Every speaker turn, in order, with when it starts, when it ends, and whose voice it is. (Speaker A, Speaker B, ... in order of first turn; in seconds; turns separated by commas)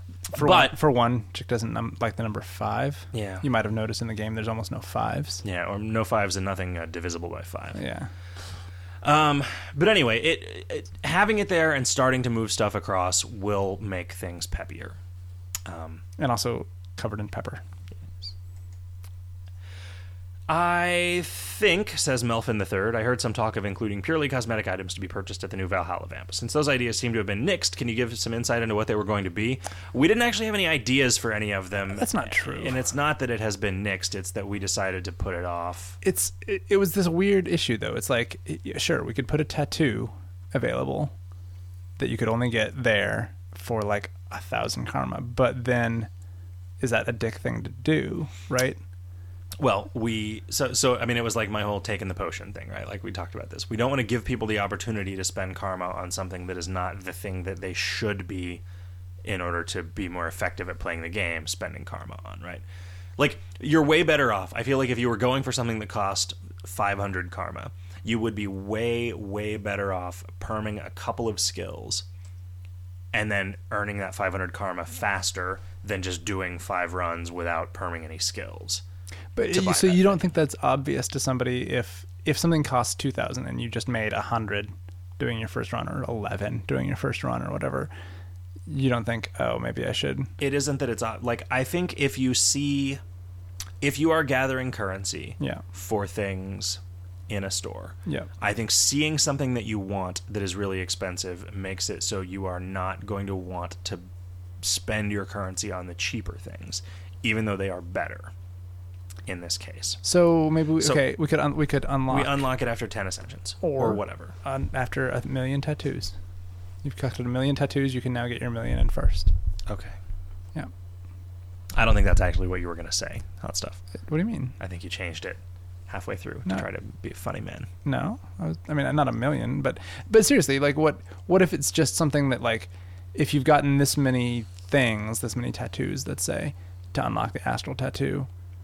Speaker A: 0.3-0.8, Speaker B: 0.3-5.4, Speaker A: 3.1-3.5, Speaker A: 5.4-7.8, Speaker B: 7.8-8.1, Speaker A: 9.0-15.0, Speaker A: 15.7-16.0, Speaker B: 16.2-17.6, Speaker A: 20.5-36.0, Speaker B: 31.9-32.8, Speaker B: 36.0-41.1, Speaker B: 42.0-46.1, Speaker B: 46.8-48.8, Speaker A: 49.6-58.6, Speaker A: 59.2-62.6, Speaker A: 63.2-72.0, Speaker A: 73.1-78.8, Speaker B: 79.3-87.9, Speaker A: 79.5-80.3, Speaker B: 88.7-90.3, Speaker A: 90.4-93.0, Speaker A: 93.8-104.1, Speaker A: 104.6-108.3, Speaker A: 109.3-110.0, Speaker B: 110.0-112.4, Speaker A: 112.1-114.3, Speaker B: 113.6-116.2, Speaker B: 116.8-119.3, Speaker A: 119.7-120.0, Speaker A: 121.7-123.8, Speaker B: 124.0-124.6, Speaker A: 124.6-127.7, Speaker B: 127.8-138.3